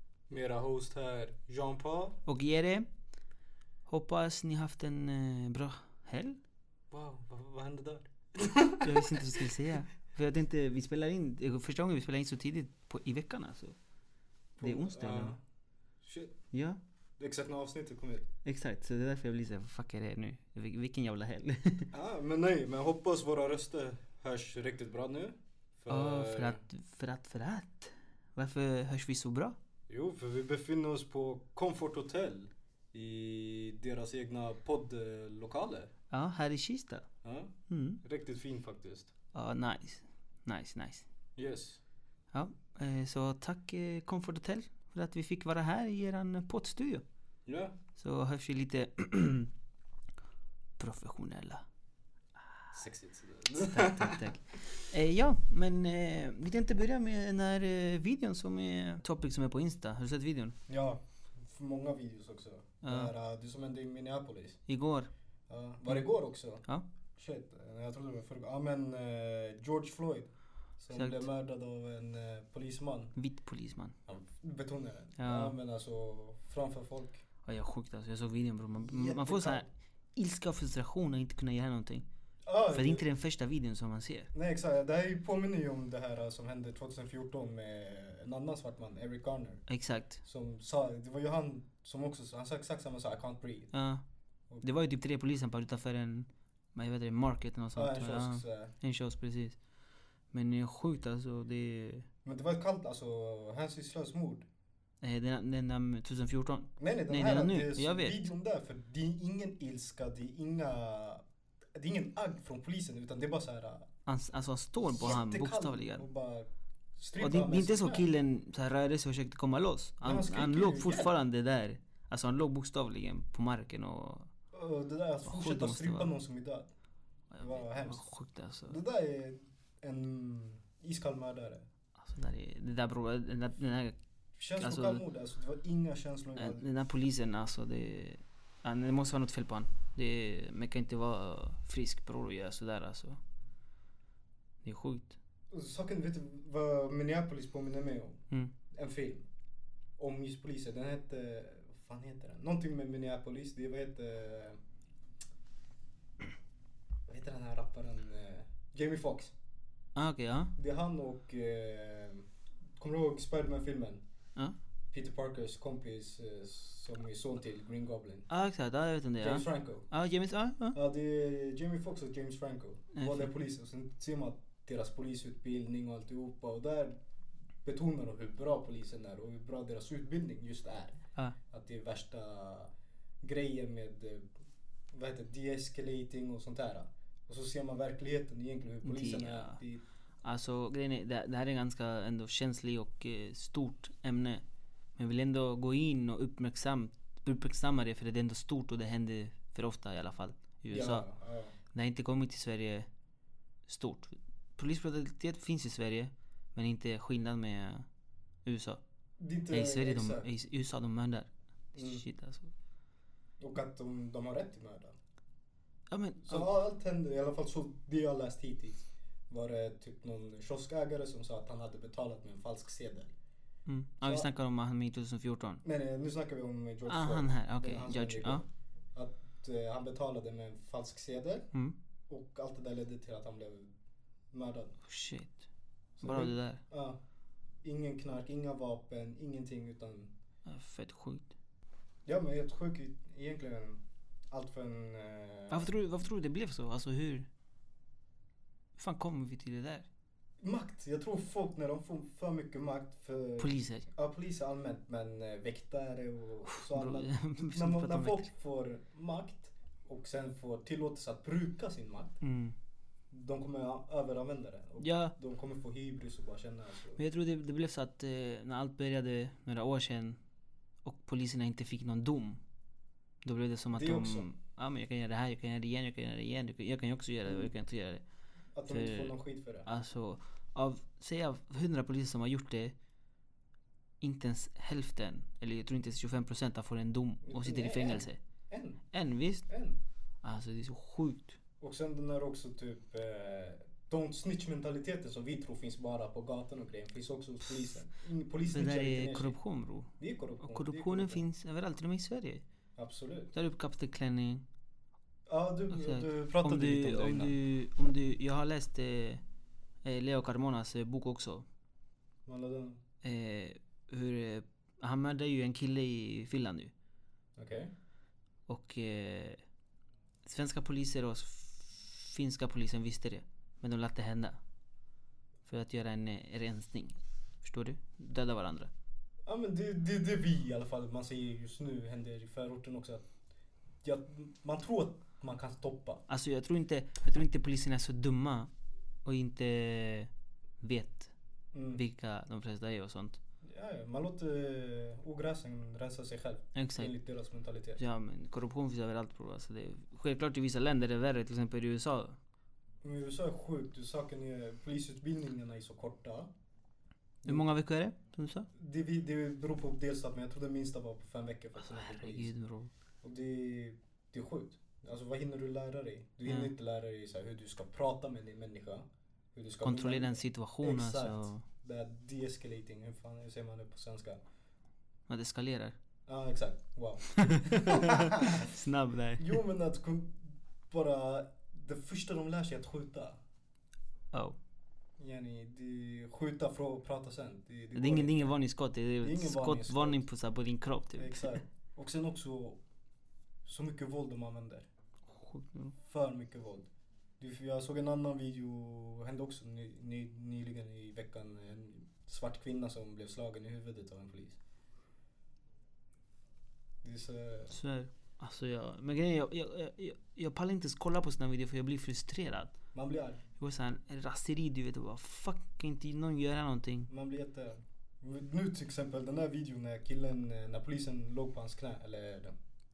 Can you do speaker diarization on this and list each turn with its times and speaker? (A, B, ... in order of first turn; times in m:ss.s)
0:00.3-0:02.2 A
0:02.3-0:02.9 B
0:03.9-0:06.4 B
0:06.9-0:09.5 A
0:08.8-0:13.8 B
0:14.6-0:15.4 A
0:14.6-0:15.4 B
0:16.0-0:16.4 A
0:16.5-0:16.8 B
0:17.2-0:18.3 A
0:18.4-0:21.9 B
0:21.9-0:26.6 A
0:25.9-0:29.6 B
0:29.9-0:35.9 A
0:36.1-0:37.1 B
0:37.2-0:39.1 A
0:37.7-0:38.0 B
0:39.3-0:41.1 B
0:41.4-0:41.8 A
0:42.3-0:47.0 B
0:47.5-0:47.7 A
0:48.0-0:49.5 B
0:50.8-0:51.6 B
0:52.7-0:54.3 A
0:53.6-1:00.6 B
1:00.7-1:04.6 A
1:02.8-1:03.1 B
1:04.7-1:05.1 B
1:05.5-1:06.6 A
1:07.2-1:13.2 A
1:10.9-1:11.3 B
1:13.2-1:14.0 B
1:14.1-1:17.2 A
1:15.2-1:15.5 B
1:17.4-1:22.0 B
1:18.8-1:19.7 A
1:22.4-1:23.0 A
1:22.7-1:24.3 B
1:24.3-1:29.7 A
1:29.7-1:30.2 B
1:30.2-1:33.7 A
1:33.7-1:34.0 B
1:34.6-1:39.6 B
1:37.8-1:38.7 A
1:40.3-1:42.1 B
1:42.2-1:44.5 A
1:45.0-1:48.2 B
1:46.8-1:51.2 A
1:51.8-1:53.9 A
1:54.1-1:56.0 B
1:54.8-1:58.0 A
1:57.2-2:04.3 B
2:00.0-2:01.1 A
2:04.5-2:06.7 A
2:05.2-2:06.1 B
2:07.3-2:08.8 B
2:07.4-2:08.0 A
2:08.7-2:11.6 A
2:12.0-2:14.0 B
2:14.4-2:16.7 A
2:14.6-2:15.0 B
2:16.4-2:23.2 B
2:24.6-2:25.2 B
2:25.5-2:29.2 A
2:30.0-2:34.6 A
2:37.1-2:39.3 A
2:40.0-2:40.5 B
2:40.6-2:42.3 A
2:42.8-2:44.0 A
2:44.9-2:48.3 A
2:48.3-2:50.8 B
2:49.2-2:49.9 A
2:50.7-2:57.0 A
2:52.9-2:53.3 B
2:57.6-3:01.0 A
3:01.5-3:02.7 A
3:03.2-3:04.3 A
3:04.9-3:09.8 A
3:08.8-3:09.6 B
3:10.2-3:14.4 B
3:15.0-3:21.1 B
3:20.7-3:21.5 A
3:21.7-3:22.9 B
3:23.7-3:27.9 B
3:28.4-3:28.8 B
3:29.2-3:30.3 A
3:29.5-3:32.5 B
3:31.8-3:32.0 A
3:33.4-3:34.9 A
3:35.9-3:36.5 B
3:36.2-3:43.1 A
3:43.7-3:45.6 B
3:44.0-3:44.3 A
3:45.6-3:51.5 A
3:46.9-3:48.4 B
3:52.1-3:53.7 A
3:54.3-3:54.8 A
3:54.9-3:55.4 B
3:56.0-3:57.0 A
3:56.0-3:56.6 B
3:57.6-4:00.1 A
4:00.5-4:01.3 B
4:02.1-4:05.7 A
4:05.5-4:07.3 B
4:08.8-4:09.9 B
4:10.4-4:22.2 A
4:13.4-4:13.9 B
4:16.5-4:18.3 B
4:22.2-4:22.6 B
4:23.1-4:27.0 A
4:24.8-4:25.2 B
4:27.0-4:30.2 B
4:30.8-4:32.4 B
4:33.2-4:38.0 B
4:33.7-4:34.3 A
4:38.6-4:39.7 A
4:38.7-4:39.2 B
4:39.7-4:42.8 B
4:44.0-4:48.2 B
4:47.2-4:48.8 A
4:48.9-4:49.5 B
4:49.5-4:49.8 A
4:50.2-4:51.4 B
4:51.6-4:59.4 A
4:58.5-5:02.4 B
5:00.0-5:01.2 A
5:02.8-5:03.3 A
5:03.3-5:04.4 B
5:05.3-5:07.4 A
5:05.7-5:09.2 B
5:09.8-5:11.5 B
5:12.3-5:12.8 A
5:13.0-5:16.7 B
5:17.4-5:17.7 A
5:18.5-5:19.4 B
5:20.2-5:24.4 B
5:25.4-5:28.7 B
5:29.2-5:33.1 A
5:33.8-5:36.0 A
5:36.1-5:38.5 B
5:39.0-5:40.1 B
5:40.6-5:41.1 B
5:41.5-5:41.8 A
5:41.7-5:43.2 B
5:43.4-5:47.8 A
5:46.6-5:46.9 B
5:47.8-5:52.2 B
5:52.8-5:56.3 A
5:57.2-5:57.5 A
5:57.2-5:58.5 B
5:58.6-6:02.3 A
6:01.7-6:02.7 B
6:03.0-6:14.2 A
6:06.3-6:06.5 B
6:09.6-6:11.4 B
6:15.1-6:15.8 B
6:16.1-6:18.5 A
6:17.2-6:19.4 B
6:19.2-6:23.2 A
6:24.1-6:24.4 B
6:25.0-6:28.4 A
6:27.8-6:31.4 B
6:29.0-6:30.0 A
6:31.0-6:32.6 A
6:33.4-6:34.7 A
6:35.1-6:35.8 B
6:35.8-6:36.7 A
6:37.2-6:44.4 A
6:46.8-6:47.5 A
6:47.5-6:52.6 B
6:52.7-6:53.2 A
6:53.4-6:56.9 B
6:56.9-7:02.4 A